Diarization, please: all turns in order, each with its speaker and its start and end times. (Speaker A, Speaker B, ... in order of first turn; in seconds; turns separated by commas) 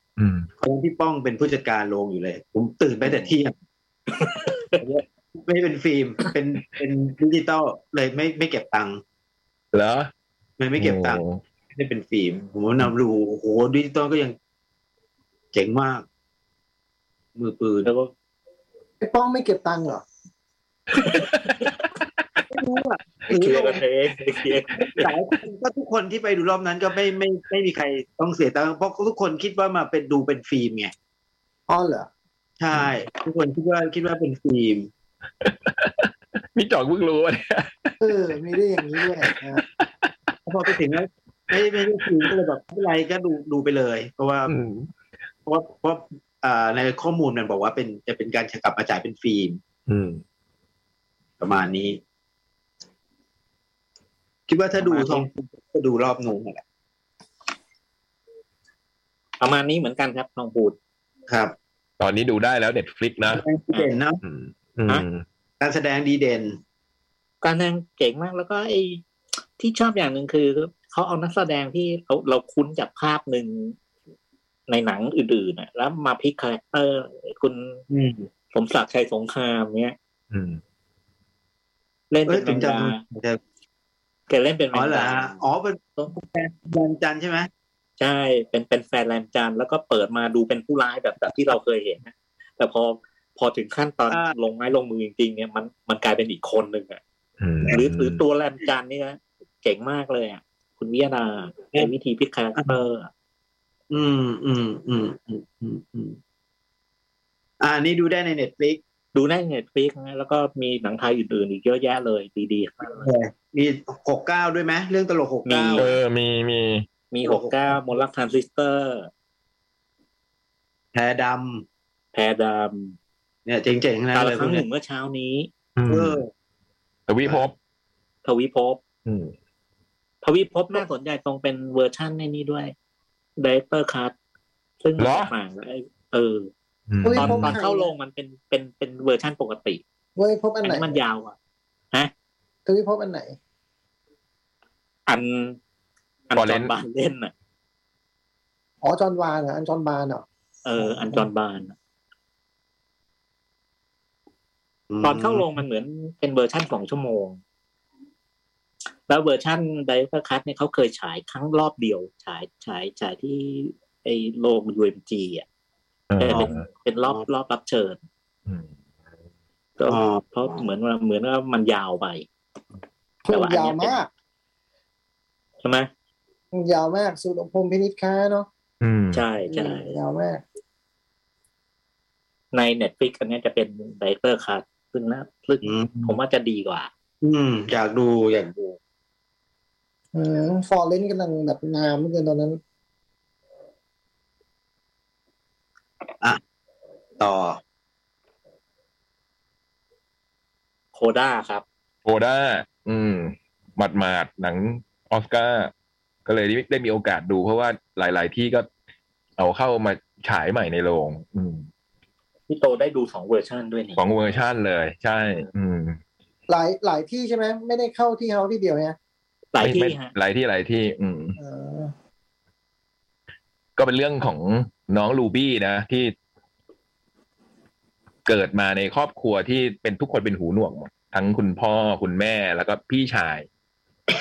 Speaker A: 0.2-0.5, Speaker B: 0.6-3.5, Speaker C: 3.0-3.3, Speaker C: 4.1-4.8, Speaker B: 4.8-9.0, Speaker A: 9.7-10.1, Speaker B: 10.6-14.3, Speaker A: 10.8-11.4, Speaker B: 15.5-16.0, Speaker B: 17.4-17.9, Speaker C: 17.8-18.1, Speaker D: 19.0-20.0, Speaker C: 21.0-21.3, Speaker A: 21.1-21.6, Speaker B: 22.5-23.8, Speaker C: 23.3-25.1, Speaker B: 24.8-30.9, Speaker D: 31.7-32.1, Speaker B: 32.6-34.9, Speaker A: 32.7-33.0, Speaker A: 35.4-38.0, Speaker D: 38.0-39.6, Speaker A: 39.0-40.1, Speaker B: 40.5-44.5, Speaker A: 41.5-42.3, Speaker A: 44.5-44.9, Speaker B: 45.5-49.6, Speaker A: 49.9-50.2, Speaker B: 51.4-52.0, Speaker B: 54.5-56.6, Speaker C: 54.8-55.3, Speaker C: 59.4-60.8, Speaker B: 61.3-61.5, Speaker A: 62.0-63.4, Speaker B: 63.3-64.2, Speaker A: 64.2-65.2, Speaker B: 65.6-66.6, Speaker C: 67.4-69.0, Speaker C: 69.6-73.8, Speaker C: 74.7-77.8, Speaker B: 77.9-78.3, Speaker C: 78.5-79.9, Speaker A: 80.3-80.6, Speaker C: 82.1-83.0, Speaker B: 82.3-83.4, Speaker C: 84.3-85.4, Speaker B: 84.7-87.5, Speaker C: 88.0-97.0, Speaker A: 97.4-98.2, Speaker C: 97.7-103.1, Speaker B: 103.9-106.2, Speaker B: 107.6-108.8, Speaker C: 109.1-113.1, Speaker B: 112.8-115.9, Speaker C: 115.5-115.9, Speaker A: 115.7-116.9, Speaker C: 117.1-119.1, Speaker B: 117.2-118.0, Speaker B: 120.9-121.6, Speaker C: 122.1-123.0, Speaker B: 123.5-124.7, Speaker C: 124.1-125.5, Speaker A: 125.8-126.2, Speaker B: 125.9-126.3, Speaker A: 127.1-127.5, Speaker C: 128.2-128.8, Speaker A: 129.1-129.3, Speaker C: 130.2-132.7, Speaker C: 133.4-134.1, Speaker C: 134.8-136.5, Speaker A: 135.0-135.3, Speaker A: 136.9-137.5, Speaker D: 137.0-137.9, Speaker C: 137.1-139.8, Speaker D: 140.2-141.0, Speaker C: 140.6-141.3, Speaker D: 142.6-143.3, Speaker C: 145.1-145.6, Speaker C: 146.3-147.3, Speaker A: 146.3-146.7, Speaker D: 148.8-150.2, Speaker C: 150.6-151.7, Speaker B: 154.9-155.5, Speaker C: 155.0-157.4, Speaker C: 159.1-165.4, Speaker A: 166.1-166.7, Speaker C: 166.2-168.0, Speaker C: 169.8-172.3, Speaker B: 169.8-170.6, Speaker D: 173.2-174.1, Speaker C: 173.3-174.0, Speaker C: 175.6-175.9, Speaker D: 176.5-178.5, Speaker A: 178.8-179.2, Speaker C: 179.1-179.9, Speaker D: 179.5-180.4, Speaker C: 182.5-186.9, Speaker B: 185.6-186.1, Speaker B: 187.2-188.8, Speaker D: 190.1-192.6, Speaker B: 197.2-197.6, Speaker C: 200.9-201.6, Speaker A: 202.0-205.7, Speaker A: 206.2-208.7, Speaker A: 209.4-211.7, Speaker C: 212.5-214.0, Speaker A: 213.9-216.0, Speaker D: 216.5-218.9, Speaker C: 219.5-220.1, Speaker A: 219.6-221.4, Speaker D: 221.4-221.9, Speaker A: 223.8-226.1, Speaker A: 228.2-233.5